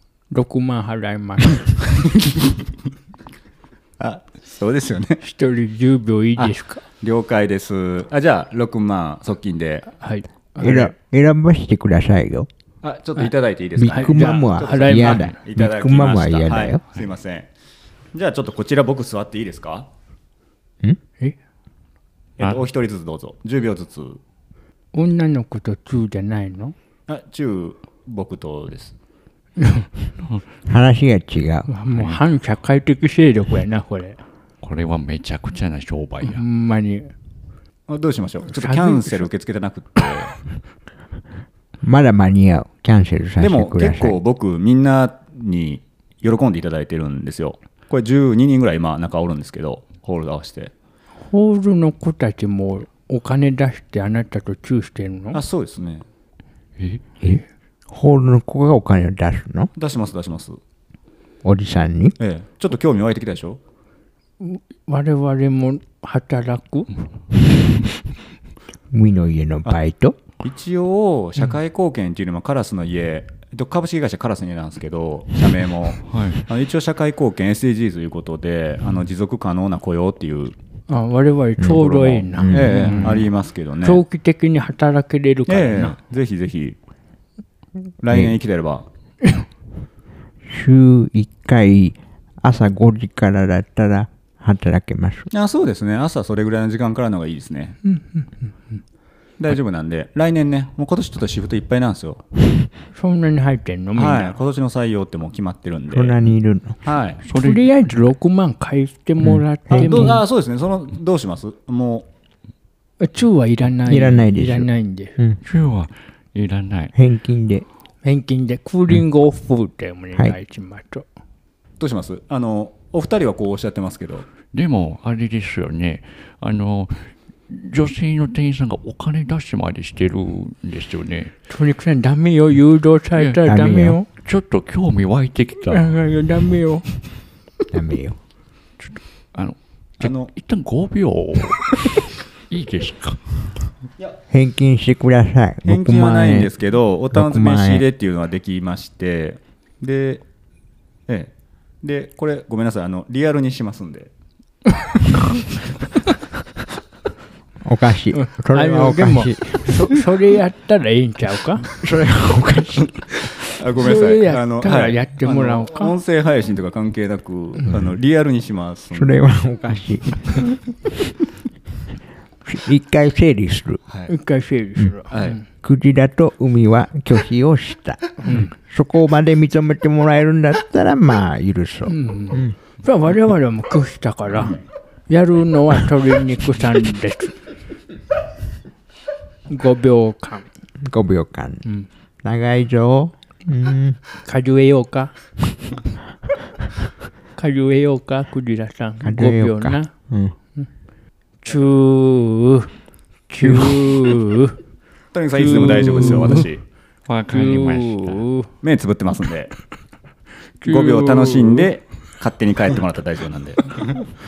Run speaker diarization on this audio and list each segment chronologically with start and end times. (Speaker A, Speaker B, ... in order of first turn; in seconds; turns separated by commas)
Speaker A: 0.3-1.8, Speaker B: 4.0-5.2, Speaker A: 5.2-6.8, Speaker B: 7.0-9.9, Speaker A: 10.0-10.9, Speaker C: 10.6-12.5, Speaker B: 12.8-17.5, Speaker C: 13.8-16.8, Speaker A: 13.9-15.4, Speaker B: 18.1-19.9, Speaker B: 22.4-24.2, Speaker A: 24.9-26.7, Speaker B: 27.1-28.9, Speaker A: 29.6-29.9, Speaker C: 30.7-31.7, Speaker A: 31.7-34.2, Speaker D: 34.6-36.4, Speaker A: 36.2-37.1, Speaker B: 37.9-40.4, Speaker A: 38.5-39.3, Speaker C: 41.8-44.2, Speaker B: 43.4-50.7, Speaker A: 51.2-55.4, Speaker B: 55.3-56.0, Speaker D: 56.8-57.0, Speaker C: 57.2-59.7, Speaker B: 59.8-60.6, Speaker C: 61.4-62.1, Speaker B: 62.2-63.6, Speaker A: 64.4-66.9, Speaker C: 68.9-70.2, Speaker B: 70.4-80.5, Speaker D: 76.1-76.5, Speaker A: 80.9-83.3, Speaker C: 81.6-83.2, Speaker B: 82.5-84.0, Speaker A: 83.8-86.0, Speaker B: 85.5-86.8, Speaker B: 88.0-88.9, Speaker C: 90.5-95.3, Speaker B: 95.3-97.8, Speaker A: 97.8-98.3, Speaker B: 99.4-102.2, Speaker A: 102.9-104.4, Speaker B: 104.0-106.1, Speaker C: 105.9-106.8, Speaker B: 106.8-107.2, Speaker D: 107.2-107.7, Speaker A: 107.3-110.2, Speaker C: 109.2-110.2, Speaker B: 109.7-112.1, Speaker A: 113.0-115.2, Speaker C: 113.8-115.4, Speaker D: 115.4-116.9, Speaker C: 116.9-117.7, Speaker A: 118.0-121.0, Speaker B: 121.8-124.3, Speaker D: 124.5-131.3, Speaker A: 131.5-134.1, Speaker C: 133.4-134.0, Speaker D: 134.2-135.9, Speaker A: 135.7-136.9, Speaker C: 137.7-138.2, Speaker D: 138.8-141.8, Speaker B: 140.0-140.3, Speaker D: 142.5-143.6, Speaker C: 144.3-146.5, Speaker B: 145.7-150.2, Speaker C: 147.1-147.8, Speaker B: 151.8-154.1, Speaker C: 157.6-160.0, Speaker A: 158.1-161.7, Speaker C: 161.8-162.9, Speaker B: 163.4-169.2, Speaker A: 163.8-165.9, Speaker C: 168.9-170.8, Speaker C: 172.4-173.8, Speaker A: 174.1-175.4, Speaker B: 175.1-175.4, Speaker C: 175.6-182.5, Speaker A: 181.8-187.4, Speaker A: 189.5-190.5, Speaker C: 190.8-191.6, Speaker C: 192.2-194.0, Speaker A: 194.2-195.1, Speaker A: 197.4-199.9, Speaker C: 199.0-200.3, Speaker A: 201.4-202.7, Speaker A: 203.3-204.6, Speaker C: 203.4-204.1, Speaker B: 205.1-206.6, Speaker A: 205.3-206.4, Speaker D: 207.1-208.2, Speaker A: 207.3-208.5, Speaker B: 208.6-209.5, Speaker A: 210.6-211.7, Speaker B: 210.6-214.0